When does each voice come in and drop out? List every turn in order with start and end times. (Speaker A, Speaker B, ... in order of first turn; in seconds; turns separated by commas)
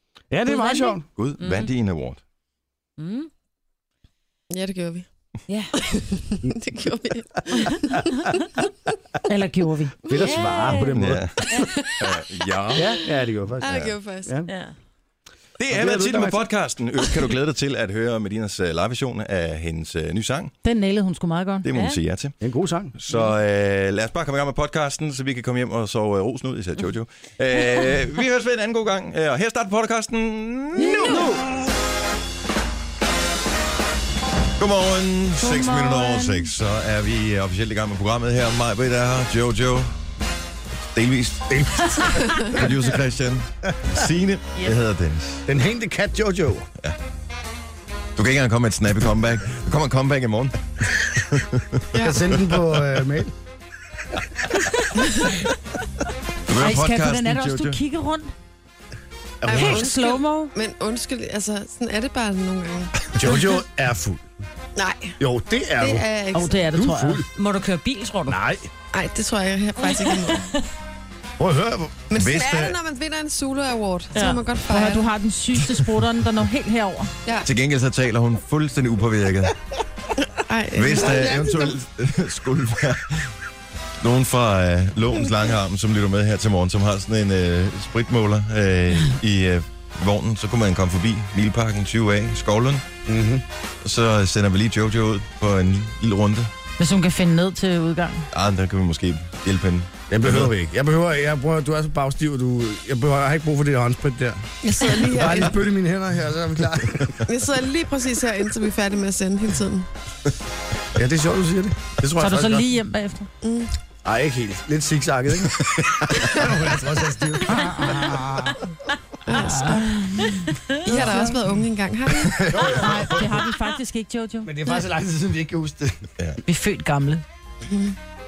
Speaker A: 0.3-1.0, Speaker B: 0.5-1.7, Speaker C: 1.1-2.2, Speaker B: 3.0-3.3, Speaker D: 4.5-5.1, Speaker B: 5.5-5.7, Speaker D: 5.8-8.4, Speaker E: 9.3-10.0, Speaker D: 10.1-10.4, Speaker A: 10.1-11.3, Speaker B: 10.2-10.9, Speaker C: 10.9-12.9, Speaker D: 11.5-12.2, Speaker A: 12.8-14.5, Speaker D: 13.6-14.3, Speaker B: 14.5-14.7, Speaker C: 15.6-20.5, Speaker A: 15.7-16.5, Speaker E: 20.6-21.7, Speaker C: 21.6-22.3, Speaker B: 21.7-22.0, Speaker A: 22.4-22.9, Speaker C: 23.0-31.3, Speaker A: 31.0-31.4, Speaker C: 34.6-39.9, Speaker E: 35.4-36.5, Speaker C: 40.9-45.4, Speaker A: 41.5-42.4, Speaker A: 45.5-46.7, Speaker C: 48.1-52.8, Speaker D: 51.9-52.2, Speaker A: 51.9-53.3, Speaker C: 56.5-57.8, Speaker E: 56.5-58.3, Speaker A: 59.4-59.8, Speaker D: 59.4-62.9, Speaker E: 59.5-60.5, Speaker A: 63.1-64.2, Speaker D: 64.8-65.2, Speaker A: 65.2-66.0, Speaker D: 65.8-66.6, Speaker E: 66.3-67.2, Speaker A: 66.7-67.3, Speaker B: 67.3-68.4, Speaker A: 68.3-68.7, Speaker D: 68.9-70.5, Speaker B: 69.8-70.7, Speaker A: 71.4-72.0, Speaker D: 72.1-75.1, Speaker C: 72.2-72.8, Speaker B: 74.1-74.4, Speaker E: 74.7-77.1, Speaker C: 77.4-79.5, Speaker D: 80.5-81.6, Speaker C: 80.7-83.3, Speaker C: 84.0-92.8, Speaker A: 93.1-93.4, Speaker C: 93.8-96.5, Speaker E: 96.8-98.2, Speaker C: 98.3-100.5, Speaker A: 100.1-107.2, Speaker D: 104.6-105.5, Speaker D: 107.2-109.9, Speaker A: 110.9-112.6, Speaker E: 112.2-113.3, Speaker D: 113.4-113.7, Speaker A: 114.0-115.8, Speaker C: 115.6-116.0, Speaker D: 116.1-116.6, Speaker A: 116.3-118.7, Speaker E: 117.5-118.2, Speaker D: 119.2-119.8, Speaker E: 119.3-121.4, Speaker D: 120.8-122.8, Speaker C: 122.2-123.3, Speaker A: 122.5-122.9, Speaker E: 122.7-124.5, Speaker A: 124.4-126.1, Speaker E: 126.5-127.2, Speaker D: 127.7-128.0